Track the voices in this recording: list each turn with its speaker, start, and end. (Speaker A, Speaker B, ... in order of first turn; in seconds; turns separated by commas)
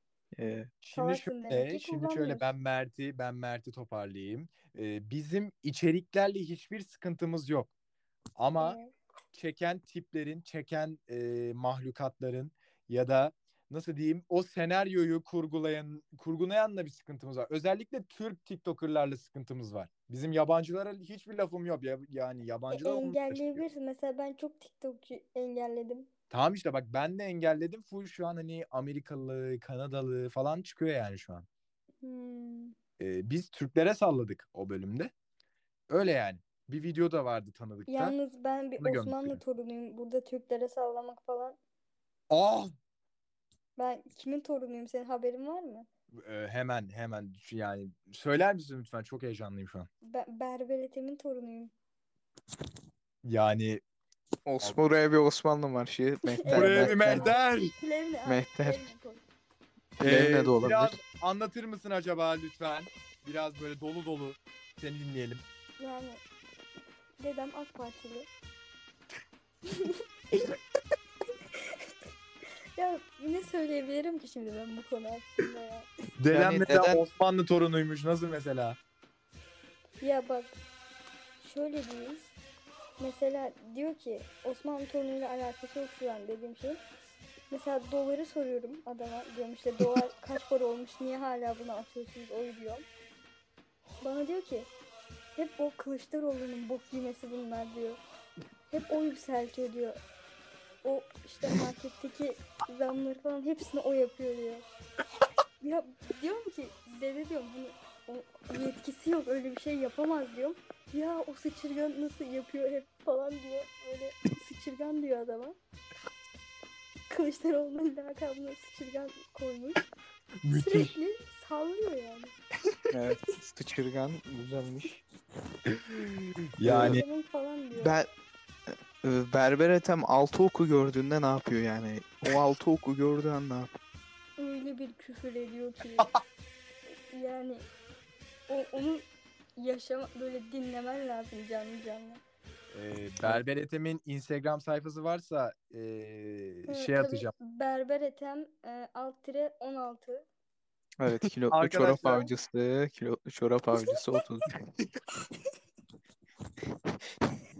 Speaker A: 0.4-0.7, Speaker B: 0.8-7.7, Speaker C: 0.9-2.5, Speaker B: 8.4-8.8, Speaker C: 8.6-8.9, Speaker B: 9.3-23.6, Speaker C: 22.7-26.1, Speaker B: 26.3-31.5, Speaker C: 32.0-32.7, Speaker B: 33.0-35.1, Speaker B: 35.9-38.1, Speaker C: 37.9-41.6, Speaker B: 38.8-39.4, Speaker B: 42.3-42.7, Speaker C: 43.8-45.9, Speaker B: 46.1-49.9, Speaker C: 50.0-51.7, Speaker B: 53.2-53.8, Speaker A: 54.5-57.3, Speaker C: 56.3-59.2, Speaker B: 56.5-57.7, Speaker A: 58.3-58.8, Speaker B: 60.0-65.4, Speaker A: 60.0-61.0, Speaker C: 65.8-66.2, Speaker C: 67.2-68.3, Speaker C: 69.7-70.0, Speaker C: 72.8-75.9, Speaker B: 76.2-78.8, Speaker A: 76.3-77.0, Speaker C: 80.0-80.5, Speaker C: 81.4-82.3, Speaker C: 83.0-86.8, Speaker C: 87.5-92.9, Speaker C: 94.0-94.7, Speaker C: 95.4-98.0, Speaker C: 98.7-100.0, Speaker C: 100.8-104.7, Speaker C: 105.6-115.6, Speaker C: 117.1-119.8, Speaker B: 120.4-120.9, Speaker C: 120.6-122.3, Speaker A: 122.9-125.0, Speaker B: 125.7-127.0, Speaker A: 126.6-127.0, Speaker C: 126.7-127.9, Speaker A: 127.8-128.1, Speaker A: 129.0-133.7, Speaker C: 134.4-136.1, Speaker C: 137.1-137.7, Speaker C: 138.5-142.2, Speaker B: 142.7-147.3, Speaker C: 146.7-150.3, Speaker A: 151.0-154.5, Speaker B: 151.5-152.3